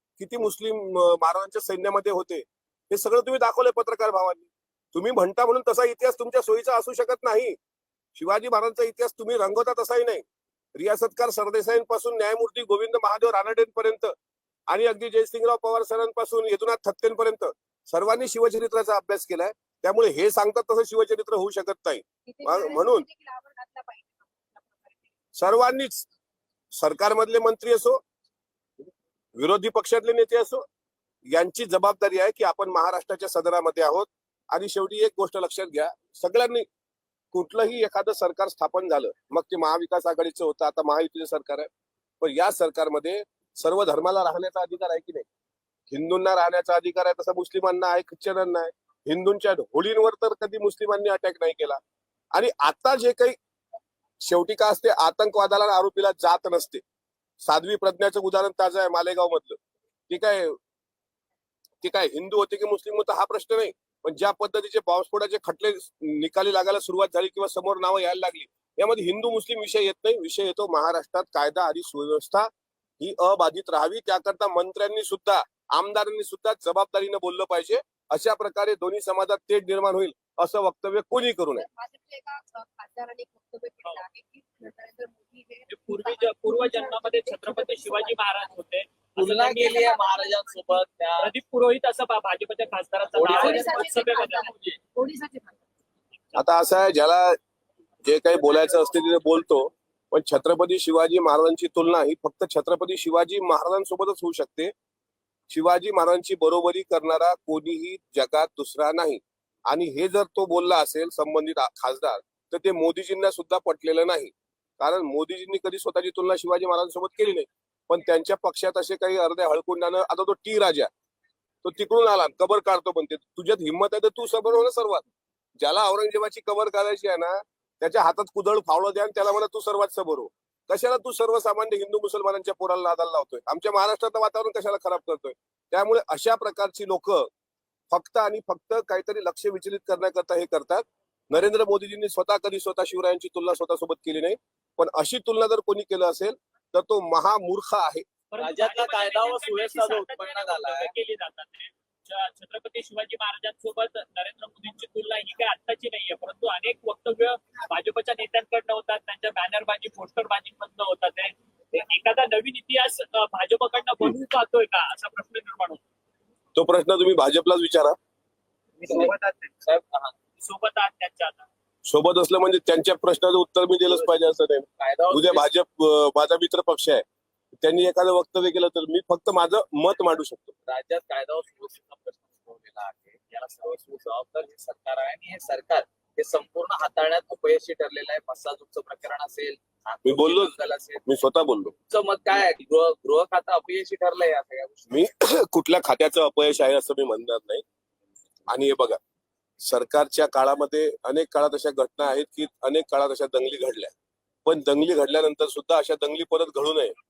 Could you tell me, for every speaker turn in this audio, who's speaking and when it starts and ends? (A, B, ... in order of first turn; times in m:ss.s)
0:00.2-0:07.6 A
0:08.2-0:10.2 A
0:10.7-0:14.1 A
0:14.7-0:23.0 A
0:22.3-0:25.1 B
0:25.4-0:26.1 A
0:26.7-0:28.0 A
0:29.4-0:30.6 A
0:31.3-0:36.7 A
0:37.3-0:41.7 A
0:42.2-0:45.3 A
0:45.9-0:51.8 A
0:52.3-0:53.4 A
0:54.2-0:56.8 A
0:57.4-1:00.6 A
1:01.8-1:21.6 A
1:21.6-1:28.2 B
1:25.7-1:29.8 C
1:29.2-1:31.3 D
1:29.9-1:30.5 B
1:31.2-1:34.8 C
1:33.2-1:33.6 D
1:33.2-1:35.5 B
1:36.4-1:37.4 A
1:38.0-1:44.7 A
1:45.5-2:00.9 A
2:01.6-2:05.0 A
2:05.6-2:17.3 A
2:17.9-2:28.0 A
2:28.3-2:45.8 C
2:28.4-2:30.9 D
2:46.5-2:48.0 A
2:49.7-2:50.1 D
2:50.4-2:51.5 C
2:51.8-2:57.0 A
2:54.8-2:55.5 D
2:57.6-3:00.5 A
3:00.7-3:05.6 D
3:06.2-3:11.0 D
3:10.0-3:10.5 A
3:11.0-3:11.7 A
3:11.9-3:14.8 D
3:14.9-3:17.6 A
3:18.5-3:19.0 A
3:19.6-3:23.9 A
3:24.4-3:27.0 A